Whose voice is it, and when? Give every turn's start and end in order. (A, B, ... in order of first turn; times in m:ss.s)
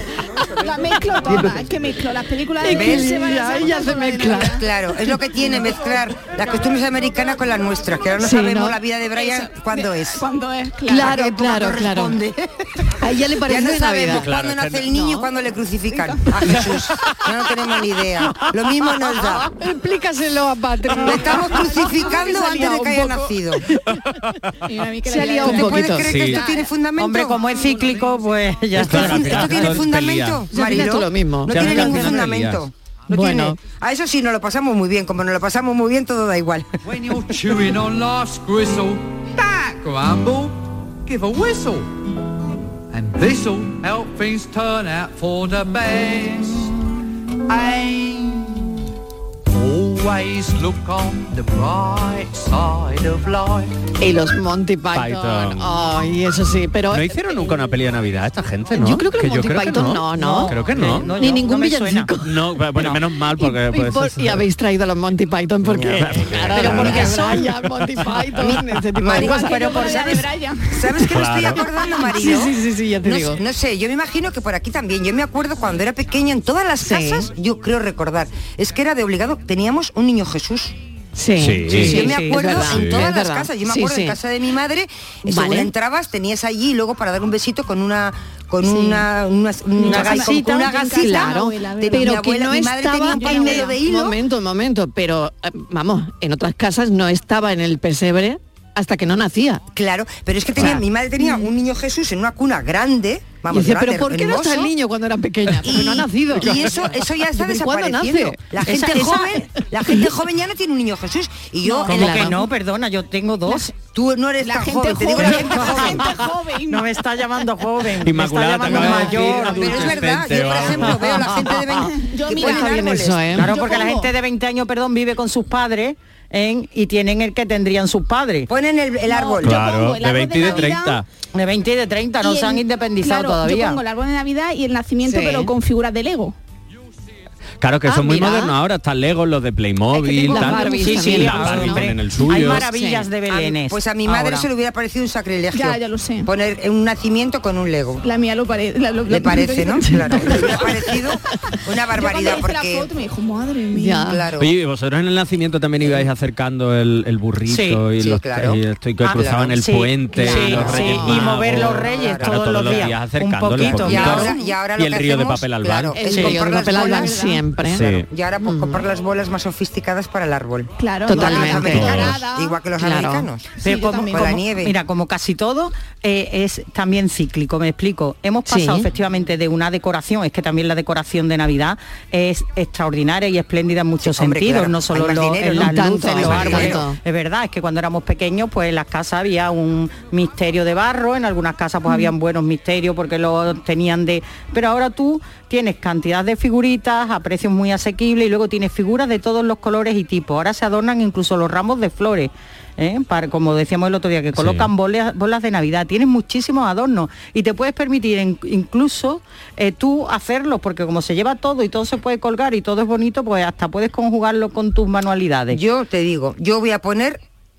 0:00.5-0:04.6 A
0:01.3-0:01.6 B
0:02.6-0:04.6 B
0:02.7-0:03.1 C
0:04.4-0:10.2 C
0:08.2-0:08.8 B
0:09.2-0:11.2 A
0:10.9-0:12.2 B
0:11.0-0:12.5 C
0:13.0-0:14.3 B
0:13.4-0:19.5 C
0:14.0-0:14.9 D
0:14.9-0:15.3 B
0:15.9-0:16.3 A
0:19.3-0:23.4 B
0:21.0-0:23.6 C
0:24.6-0:26.7 A
0:25.0-0:26.2 B
0:25.4-0:27.4 C
0:26.0-0:26.4 D
0:27.0-0:29.7 E
0:28.7-0:30.5 D
0:28.8-0:36.7 C
0:30.5-0:32.2 B
0:31.5-0:32.6 D
0:33.1-0:33.6 B
0:36.8-0:41.9 F
0:42.9-0:46.7 F
0:47.5-0:48.8 F
0:49.5-0:53.8 F
0:54.0-0:57.1 B
0:54.9-0:55.7 D
0:56.9-1:01.1 D
0:58.8-1:02.4 B
1:00.2-1:02.1 E
1:02.2-1:04.4 D
1:03.4-1:10.0 B
1:05.7-1:07.3 D
1:06.6-1:07.2 C
1:08.4-1:20.7 C
1:09.1-1:11.0 A
1:09.5-1:10.1 E
1:11.0-1:11.6 D
1:11.8-1:13.4 B
1:16.8-1:17.3 B
1:21.1-1:24.2 B
1:21.4-1:23.1 D
1:21.7-1:34.2 C
1:21.9-1:22.6 E
1:25.2-1:25.7 B
1:28.6-1:29.1 A
1:29.8-1:32.2 A
1:29.8-1:30.2 E
1:30.9-1:39.6 B
1:33.1-1:33.8 A
1:39.7-1:44.7 C
1:40.5-1:40.8 B
1:43.5-1:50.1 B
1:45.6-1:52.4 C
1:51.7-1:52.4 B
1:51.8-1:53.7 E
1:53.9-1:56.1 C
1:54.4-1:56.9 A
1:55.6-1:56.0 E
1:56.7-2:00.1 E
1:58.0-2:01.5 D
1:59.3-2:03.4 C
2:01.4-2:04.1 A
2:02.3-2:03.5 B
2:03.4-2:08.5 E
2:08.5-2:09.6 C
2:09.1-2:11.0 A
2:09.4-2:11.0 D
2:11.3-2:13.8 E
2:12.2-2:16.3 A
2:15.0-2:15.5 B
2:17.6-2:22.6 D
2:17.8-2:18.6 B
2:20.2-2:23.1 B
2:20.6-2:24.5 E
2:23.3-2:28.0 C
2:25.5-2:26.3 A
2:28.0-2:30.7 A
2:29.1-2:32.9 C
2:29.9-2:30.5 B
2:32.0-2:34.1 A
2:33.7-2:34.3 B
2:34.1-2:34.5 C
2:34.4-2:46.4 D
2:37.5-2:37.8 E
2:38.0-2:38.6 C
2:39.0-2:44.3 E
2:39.1-2:39.5 C
2:40.2-2:41.2 B
2:40.2-2:42.9 C
2:43.6-2:54.7 C
2:45.9-2:48.8 B
2:46.1-2:46.4 E
2:46.7-2:47.4 A
2:47.6-2:48.1 D
2:50.8-2:52.6 A
2:51.0-2:52.2 B
2:51.7-2:52.2 D
2:52.8-2:53.3 B
2:53.6-2:54.4 A
2:53.6-3:35.6 E
2:58.5-2:58.9 B
3:04.0-3:06.8 C
3:05.4-3:07.0 B
3:24.4-3:24.7 D
3:35.5-3:37.2 C